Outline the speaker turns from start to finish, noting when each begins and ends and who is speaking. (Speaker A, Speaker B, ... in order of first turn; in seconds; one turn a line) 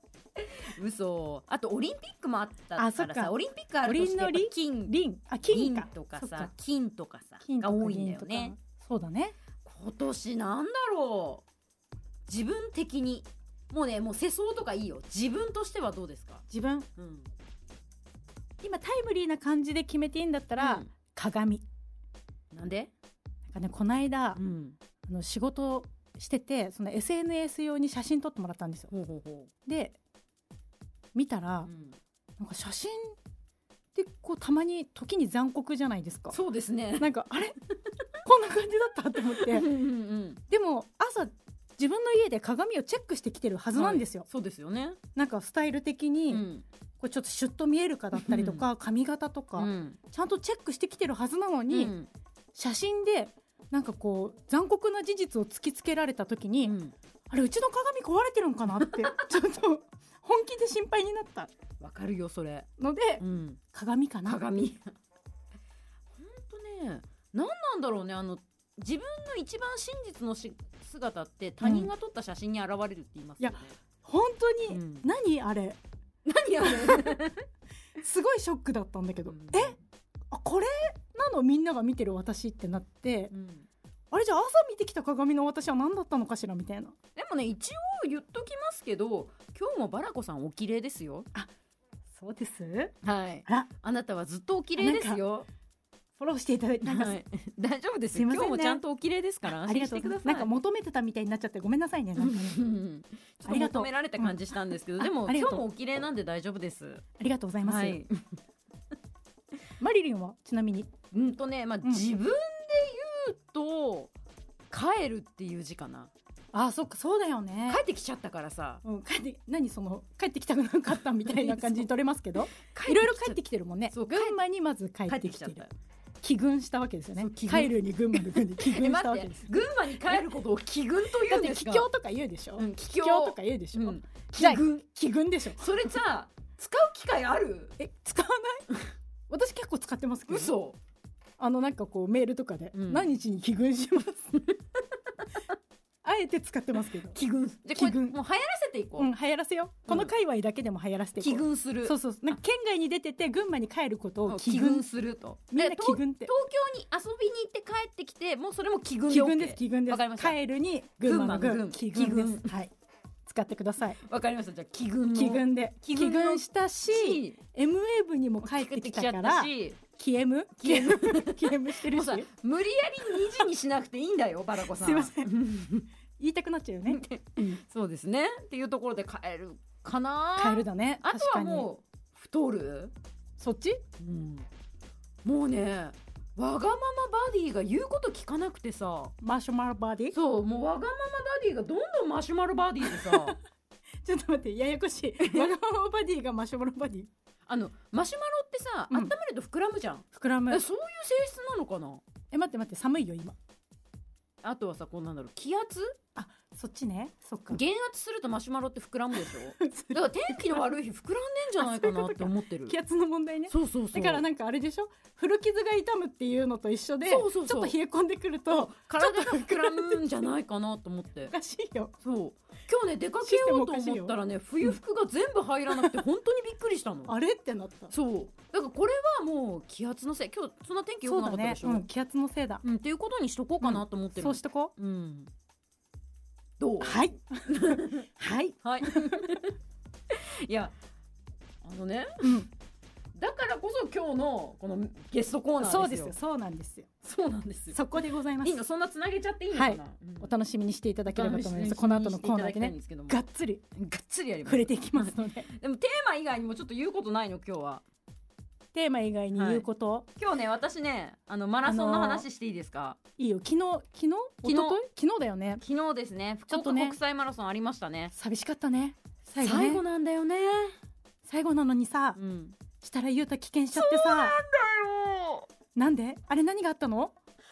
Speaker A: 0.4-8.5
Speaker B: 2.8-6.5
Speaker B: 7.4-9.3
Speaker A: 9.6-11.4
Speaker A: 12.3-16.4
Speaker B: 16.5-16.9
Speaker A: 16.9-17.3
Speaker B: 18.6-21.6
Speaker A: 20.6-20.9
Speaker A: 22.5-22.9
Speaker B: 23.5-24.4
Speaker A: 24.3-24.8
Speaker B: 25.1-28.9
Speaker A: 28.9-29.5
Speaker B: 29.6-30.0
Speaker B: 31.1-31.7
Speaker A: 31.6-32.0
Speaker B: 32.4-33.1
Speaker B: 33.9-36.4
Speaker A: 36.3-37.1
Speaker B: 37.0-37.5
Speaker B: 38.2-39.7
Speaker A: 39.3-40.4
Speaker B: 40.5-44.2
Speaker A: 43.7-45.0
Speaker B: 45.1-46.5
Speaker A: 46.3-46.6
Speaker B: 47.0-51.9
Speaker A: 48.1-48.7
Speaker A: 49.5-50.0
Speaker A: 51.7-52.1
Speaker B: 52.5-56.7
Speaker A: 56.6-56.9
Speaker B: 57.3-61.5
Speaker A: 58.8-59.1
Speaker A: 61.8-62.7
Speaker B: 62.8-64.4
Speaker A: 63.2-63.6
Speaker A: 64.2-64.9
Speaker A: 66.1-73.8
Speaker B: 71.6-71.9
Speaker B: 73.4-75.8
Speaker A: 74.7-75.1
Speaker A: 76.2-77.4
Speaker B: 76.6-77.2
Speaker B: 78.0-79.7
Speaker A: 79.3-79.8
Speaker B: 80.3-83.3
Speaker A: 83.3-83.7
Speaker B: 84.1-86.9
Speaker A: 87.2-91.3
Speaker B: 92.1-93.7
Speaker A: 93.0-95.5
Speaker B: 94.8-95.2
Speaker B: 96.2-97.2
Speaker A: 96.8-100.5
Speaker B: 98.1-98.8
Speaker B: 99.4-102.7
Speaker A: 102.2-107.0
Speaker B: 103.4-104.4
Speaker B: 105.0-105.7
Speaker B: 107.2-108.0
Speaker A: 107.6-108.3
Speaker B: 109.8-110.9
Speaker A: 111.1-114.1
Speaker A: 114.7-116.1
Speaker B: 116.5-117.8
Speaker A: 117.7-118.8
Speaker B: 118.8-125.6
Speaker A: 121.2-121.9
Speaker A: 122.6-123.4
Speaker A: 123.9-124.4
Speaker A: 125.0-125.7
Speaker B: 126.2-129.5
Speaker A: 127.2-131.9
Speaker B: 131.1-135.7
Speaker A: 132.6-134.9
Speaker A: 135.5-137.8
Speaker B: 137.8-138.7
Speaker B: 139.3-140.5
Speaker A: 140.3-140.8
Speaker B: 141.4-144.5
Speaker A: 142.7-143.1
Speaker B: 146.0-147.2
Speaker A: 147.1-149.1
Speaker B: 147.7-148.2
Speaker B: 149.0-154.8
Speaker A: 149.8-150.1
Speaker A: 151.2-152.3
Speaker A: 154.3-160.4
Speaker B: 155.5-156.3
Speaker B: 159.1-162.7
Speaker A: 161.0-162.5
Speaker B: 163.2-164.0
Speaker A: 164.1-167.4
Speaker B: 165.1-172.3
Speaker A: 168.4-169.8
Speaker A: 170.6-175.9
Speaker B: 173.1-173.4
Speaker B: 174.6-175.4
Speaker B: 176.2-177.6
Speaker A: 176.9-182.9
Speaker B: 180.4-181.7
Speaker B: 183.4-183.8
Speaker A: 184.0-184.5
Speaker A: 185.2-189.1
Speaker B: 189.2-190.1
Speaker A: 190.1-193.4
Speaker B: 192.8-193.4
Speaker B: 194.0-197.1
Speaker A: 195.2-195.5
Speaker A: 197.5-202.0
Speaker B: 200.1-200.6
Speaker B: 202.3-203.4
Speaker A: 204.4-206.0
Speaker B: 206.1-207.6
Speaker A: 207.5-212.8
Speaker B: 209.1-210.7
Speaker B: 211.6-220.2
Speaker A: 213.5-214.2
Speaker A: 217.0-217.8
Speaker A: 218.5-221.3
Speaker B: 221.3-221.9
Speaker A: 222.0-227.1
Speaker B: 223.2-224.8
Speaker B: 225.7-226.0
Speaker B: 227.1-227.9
Speaker A: 227.9-231.8
Speaker B: 231.0-232.6
Speaker A: 232.6-235.3
Speaker B: 233.6-234.7
Speaker A: 236.6-238.1
Speaker B: 236.8-239.3
Speaker A: 238.6-239.5
Speaker A: 240.1-240.8
Speaker A: 241.6-242.4
Speaker B: 242.2-242.5
Speaker A: 243.1-246.1
Speaker B: 245.6-246.9
Speaker A: 247.0-247.8
Speaker B: 247.7-248.6
Speaker A: 248.4-250.3
Speaker B: 249.5-253.6
Speaker A: 251.1-253.2
Speaker A: 253.8-257.8
Speaker B: 254.4-255.5
Speaker B: 258.7-260.1
Speaker A: 259.3-263.0
Speaker B: 261.6-262.2
Speaker B: 263.2-265.6
Speaker A: 264.4-264.8
Speaker A: 265.6-268.1
Speaker B: 266.5-267.0
Speaker B: 268.1-269.8
Speaker A: 269.4-270.8
Speaker B: 271.2-272.2
Speaker A: 272.1-272.6
Speaker B: 272.8-274.4
Speaker A: 273.7-275.5
Speaker B: 275.7-277.1